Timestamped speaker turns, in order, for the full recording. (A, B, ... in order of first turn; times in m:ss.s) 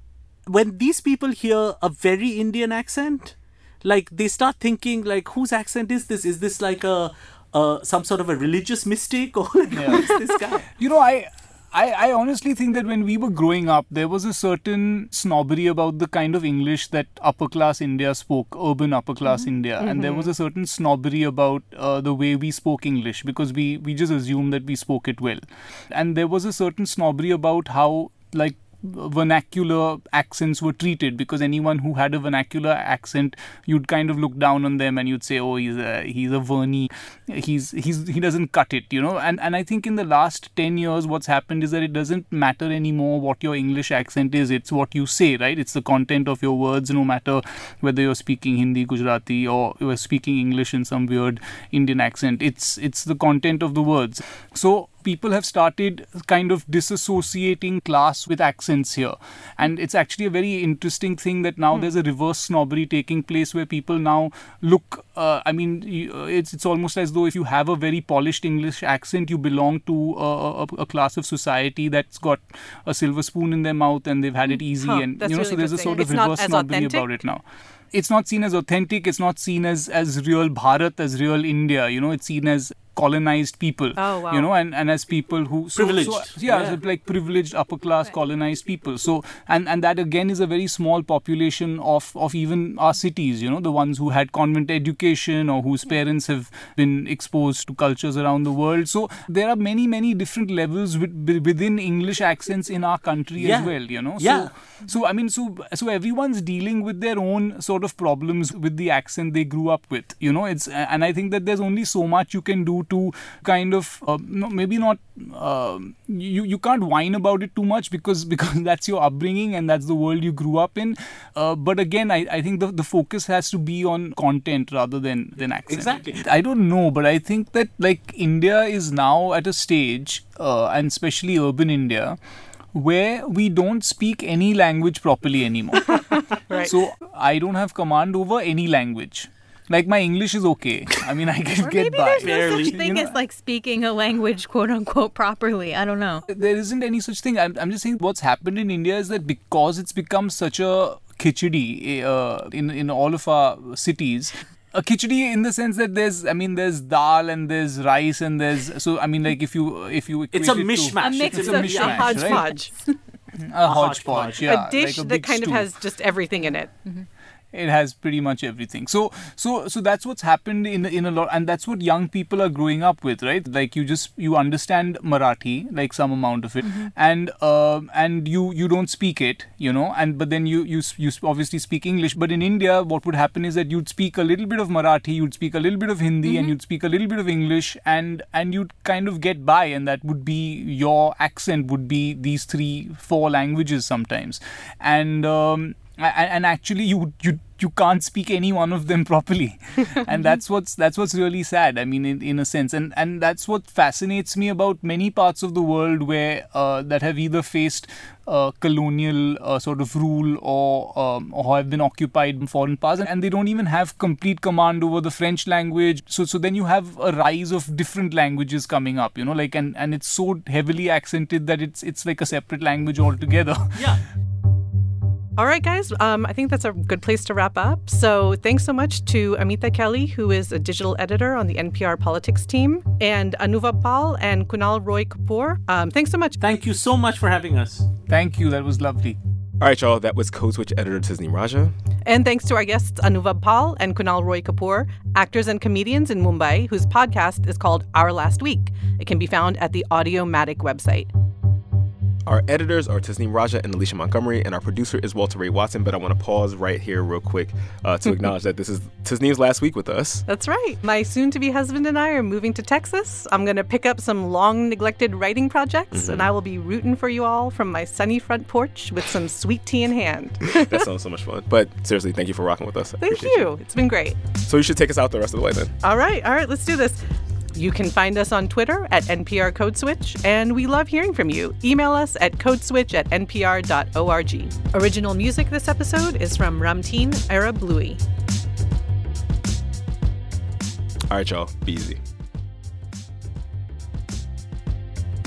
0:00.5-0:10.7 A
0:09.7-0:10.1 B
0:10.8-0:25.4 B
0:19.8-0:20.3 C
0:25.9-2:12.2 B
1:14.8-1:17.1 C
1:24.0-1:24.5 C
1:25.8-1:26.8 A
1:43.4-1:44.5 A
2:05.7-2:06.2 A
2:12.7-2:23.1 B
2:16.5-2:16.7 C
2:21.6-2:26.2 D
2:22.2-2:22.8 A
2:26.3-2:42.5 B
2:40.3-2:42.4 A
2:41.0-2:42.4 D
2:41.8-2:42.7 C
2:43.4-2:45.7 B
2:43.6-2:44.5 A
2:44.4-2:46.7 C
2:47.5-3:43.9 B
2:56.6-2:56.9 D
3:06.2-3:06.5 D
3:43.8-3:44.0 A
3:45.4-3:56.4 C
3:56.4-3:57.8 A
3:58.1-3:59.2 B
3:59.6-4:01.7 E
4:02.1-4:11.1 C
4:12.2-4:20.2 E
4:20.3-4:30.8 C
4:25.9-4:26.3 E
4:30.4-4:33.5 E
4:33.0-4:34.2 C
4:34.4-4:35.8 E
4:35.8-4:37.0 C
4:37.5-4:48.0 C
4:51.1-4:52.0 E